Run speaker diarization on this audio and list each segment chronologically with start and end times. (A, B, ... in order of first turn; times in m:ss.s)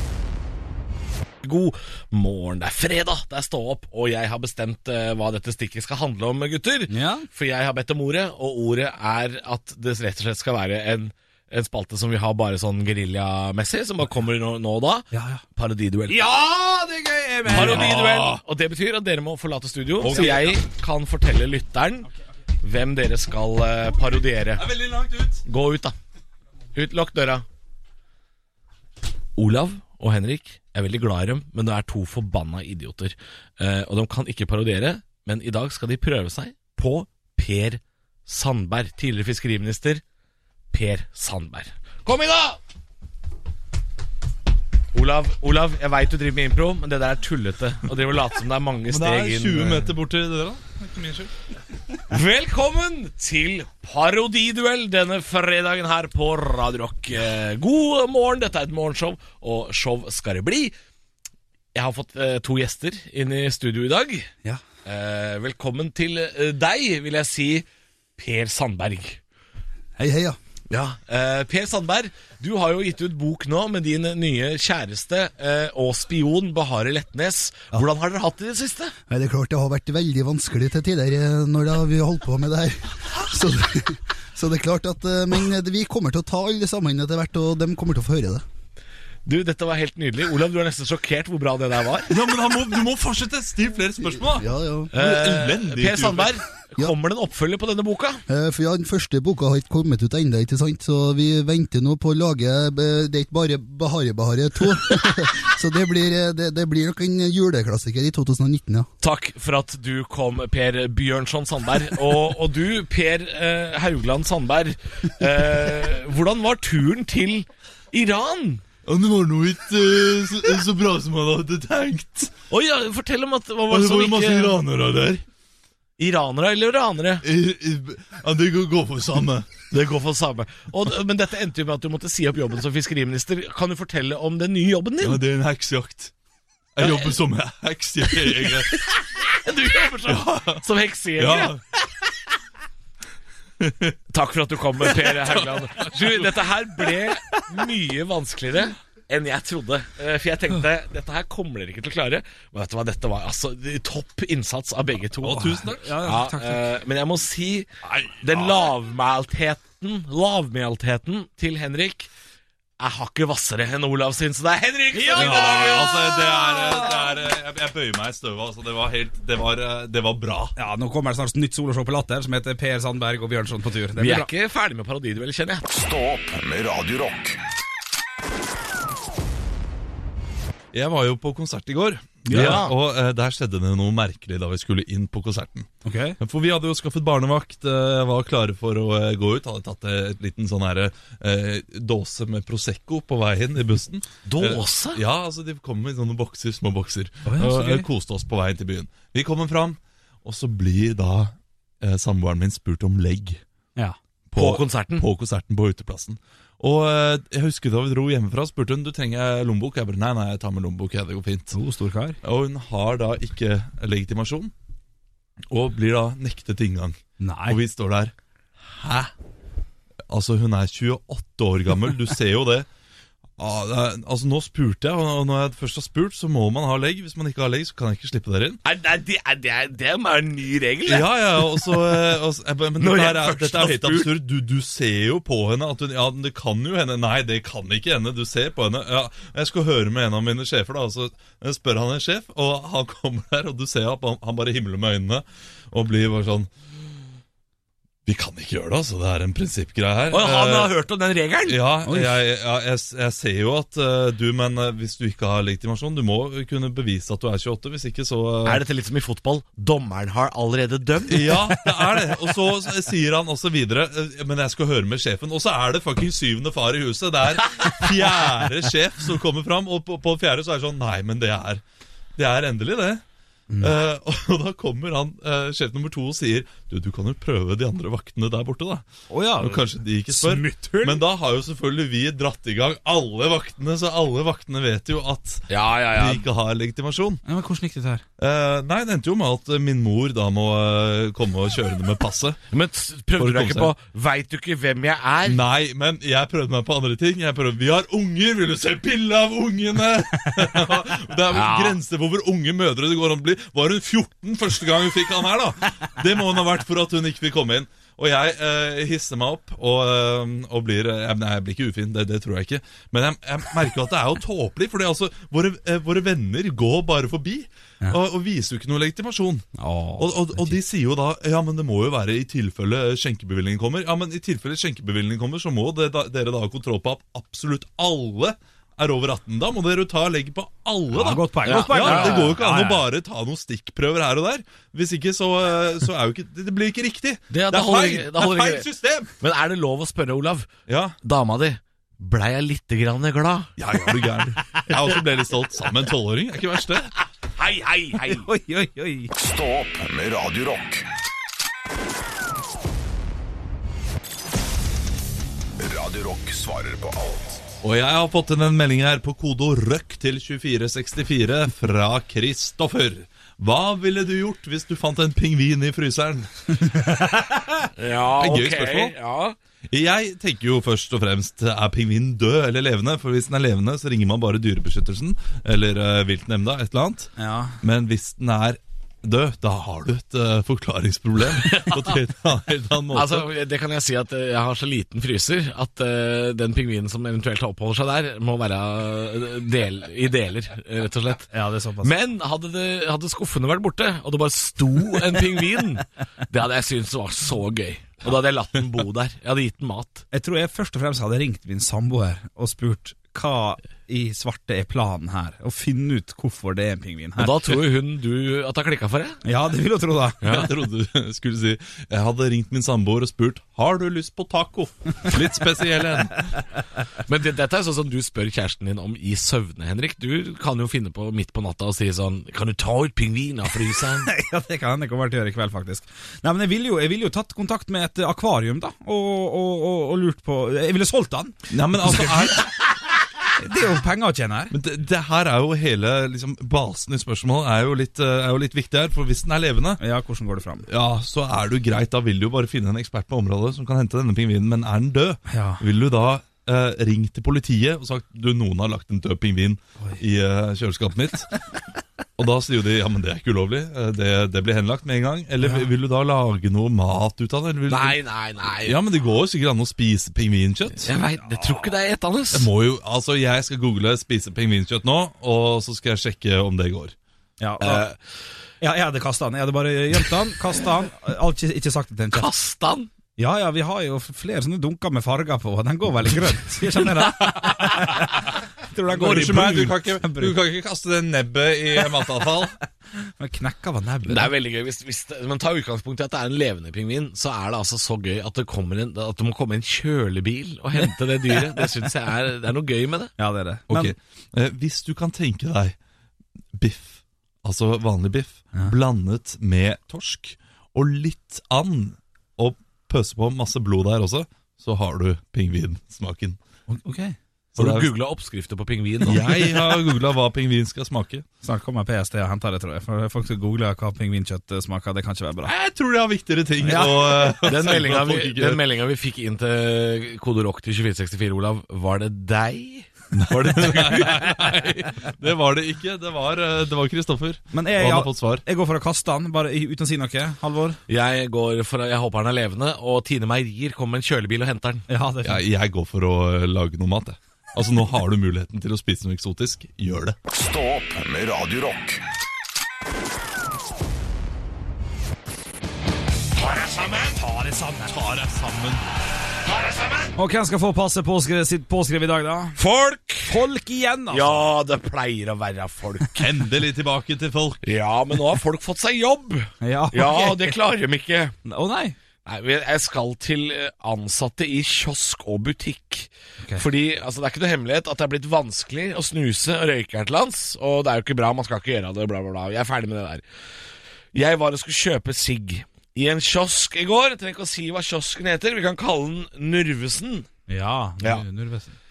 0:01.4-0:16.2 A
0:06.9-0:07.3 B
0:15.1-0:15.4 B
0:16.1-0:18.0 B
0:17.5-0:18.4 C
0:17.5-0:22.1 A
0:20.0-0:20.6 C
0:22.6-0:24.7 A
0:24.6-0:25.4 C
0:25.4-0:26.0 A
0:26.8-0:27.4 A
0:29.4-0:40.0 A
0:40.7-0:42.6 A
0:44.9-0:49.9 A
0:48.9-0:51.3 C
0:52.1-1:00.7 A
1:01.7-1:04.3 A
1:04.8-1:07.7 A
1:08.2-1:09.2 A
1:10.0-1:10.4 D
1:10.7-1:19.0 A
1:19.1-1:28.4 D
1:29.3-1:32.1 A
1:32.1-1:36.4 C
1:34.4-1:34.9 D
1:34.9-1:38.2 A
1:38.3-1:48.9 D
1:49.0-1:58.6 A
1:58.9-2:02.3 C
2:02.5-2:04.6 A
2:03.7-2:05.2 C
2:06.0-2:07.2 A
2:07.2-2:09.5 C
2:09.7-2:15.2 A
2:15.0-2:16.1 C
2:16.8-2:18.8 C
2:16.8-2:17.1 A
2:18.8-2:21.5 A
2:20.0-2:20.6 C
2:21.2-2:21.6 C
2:23.6-2:23.9 C
2:24.1-2:37.7 A
2:24.8-2:26.5 C
2:35.2-2:35.8 C
2:35.7-2:36.7 B
2:37.8-2:38.6 C
2:38.2-2:42.1 A
2:42.8-2:46.1 A
2:44.9-2:46.0 B
2:45.2-2:50.6 C
2:50.6-2:54.3 B
2:54.0-2:55.7 A
2:55.7-2:57.4 E
3:00.7-3:05.7 C
3:02.3-3:02.7 B
3:05.8-3:06.2 B
3:06.2-3:23.4 C
3:14.3-3:15.0 A
3:17.3-3:17.9 B
3:24.3-3:31.6 C
3:24.4-3:25.0 A
3:31.5-3:32.2 B
3:32.2-3:34.5 C
3:35.5-3:38.1 C
3:37.2-3:37.6 B
3:38.7-3:39.1 C
3:40.1-3:42.7 C
3:43.4-3:48.6 C
3:48.6-3:51.4 A
3:50.9-4:06.5 C
3:52.8-3:54.1 A
4:08.1-4:10.7 C
4:10.1-4:11.6 A
4:11.5-4:18.6 C
4:11.9-4:12.2 B
4:18.4-4:21.6 A
4:21.1-4:31.6 C
4:32.2-4:33.0 C
4:33.5-4:33.8 B
4:33.6-4:38.9 C
4:39.1-4:41.0 B
4:39.4-4:47.2 C
4:45.5-4:46.2 A
4:47.2-4:48.0 B
4:48.2-4:52.4 C
4:52.5-4:55.4 A
4:53.2-4:53.7 C
4:55.2-5:19.5 C
5:01.3-5:01.8 A
5:19.6-5:20.6 B
5:20.0-5:39.1 C
5:30.9-5:32.8 B
5:31.4-5:32.3 A
5:37.3-5:38.6 A
5:39.2-5:40.5 A
5:40.7-5:41.0 C
5:41.0-5:43.5 A
5:43.6-5:47.0 C
5:47.4-5:48.3 A
5:48.0-5:49.1 B
5:49.1-5:50.9 E
5:55.6-5:57.4 E
5:57.6-6:06.9 C
6:07.0-6:07.4 B
6:07.8-6:09.4 A
6:08.2-6:08.9 C
6:09.7-6:17.1 C
6:17.2-6:17.6 B
6:17.6-6:23.3 C
6:22.9-6:31.3 A
6:31.3-6:31.9 B
6:31.8-6:40.0 A
6:40.1-6:47.6 B
6:47.2-6:49.2 A
6:49.2-6:50.4 B
6:50.2-6:50.5 A
6:50.2-6:56.3 C
6:57.1-7:04.1 A
7:04.1-7:12.5 B
7:11.5-7:12.5 C
7:13.4-7:14.5 B
7:14.5-7:19.8 C
7:19.8-7:20.7 B
7:20.7-7:31.3 C
7:25.3-7:25.6 B
7:32.2-7:38.0 C
7:35.4-7:35.7 B
7:37.7-7:38.8 A
7:38.6-7:40.9 C
7:40.8-7:42.5 A
7:41.3-7:41.7 B
7:42.3-7:46.9 C
7:47.4-7:47.9 B
7:47.6-7:48.0 A
7:48.6-7:52.3 B
7:52.1-7:52.9 A
7:53.2-8:00.4 B
7:58.9-8:02.6 C
8:03.2-8:04.3 B
8:04.1-8:13.1 A
8:13.2-8:14.0 B
8:13.7-8:15.8 C
8:16.5-8:26.4 C
8:26.7-8:27.2 B
8:27.6-8:27.9 C
8:27.6-8:29.7 A
8:29.0-8:31.2 C
8:31.4-8:35.5 B
8:35.4-8:38.6 C
8:36.6-8:37.4 B
8:37.4-8:44.6 A
8:43.1-8:48.4 C
8:47.5-8:50.8 B
8:50.9-8:54.9 A
8:54.9-8:55.4 B
8:55.2-9:00.2 C
9:00.3-9:02.0 E
9:06.4-9:07.2 A
9:07.2-9:08.0 B
9:07.9-9:08.9 C
9:09.5-9:10.1 A
9:10.2-9:12.6 B
9:12.6-9:13.4 A
9:13.2-9:14.5 B
9:14.1-9:16.3 A
9:16.2-9:17.6 C
9:17.6-9:21.4 A
9:19.6-9:20.6 B
9:21.4-9:22.0 B
9:22.2-9:33.2 A
9:34.1-9:40.3 A
9:40.5-9:41.7 B